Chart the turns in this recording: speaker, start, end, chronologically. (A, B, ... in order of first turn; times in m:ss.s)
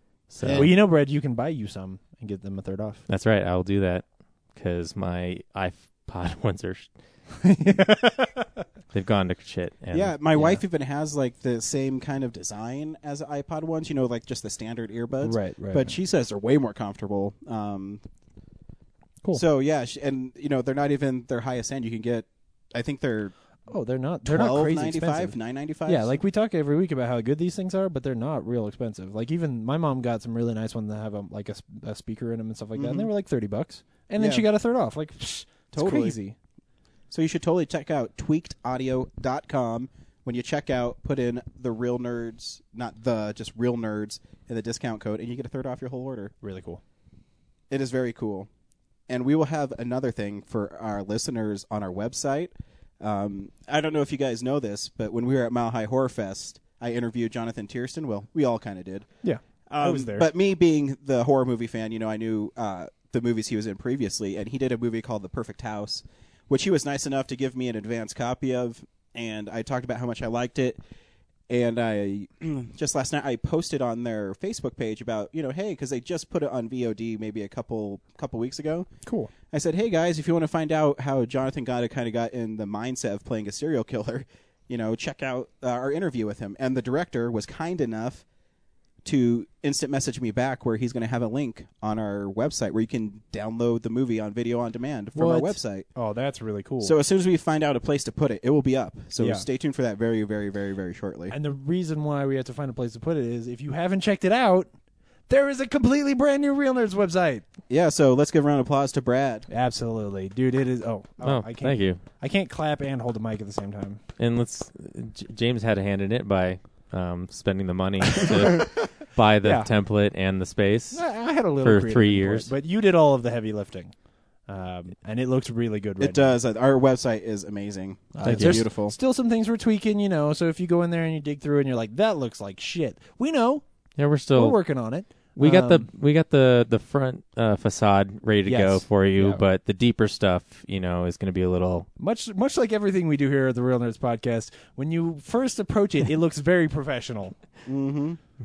0:00.3-0:00.7 A
0:00.4-0:00.8 B
0:00.5-0:03.0 C
0:03.1-0:06.9 A
0:07.4-0:08.6 C
0:08.9-0:10.1 A
0:09.9-0:18.0 B
0:10.3-0:10.6 C
0:15.2-0:16.0 C
0:19.3-0:23.3 B
0:23.7-0:36.4 C
0:24.2-0:26.2 B
0:32.8-0:33.1 B
0:34.2-0:34.5 B
0:35.7-0:36.2 B
0:37.1-0:46.3 B
0:46.4-0:46.8 C
0:47.7-0:48.5 B
0:49.1-0:59.1 B
0:59.2-1:00.3 C
0:59.7-1:10.8 B
1:11.5-1:18.9 B
1:19.0-1:19.3 C
1:19.5-1:28.2 B
1:29.0-1:35.9 B
1:35.1-1:36.9 C
1:36.8-1:41.4 B
1:39.2-1:39.4 C
1:41.3-1:44.7 C
1:45.3-1:47.4 C
1:47.7-1:49.5 B
1:49.5-1:54.0 C
1:51.2-1:52.0 A
1:54.2-2:01.1 A
1:59.4-1:59.7 C
2:00.9-2:03.9 C
2:01.6-2:02.5 A
2:04.5-2:06.4 C
2:06.0-2:09.0 B
2:08.1-2:13.6 C
2:08.2-2:08.6 A
2:14.0-2:14.6 A
2:14.3-2:15.9 C
2:15.4-2:21.9 A
2:18.4-2:19.4 C
2:22.0-2:27.4 C
2:27.6-2:28.2 B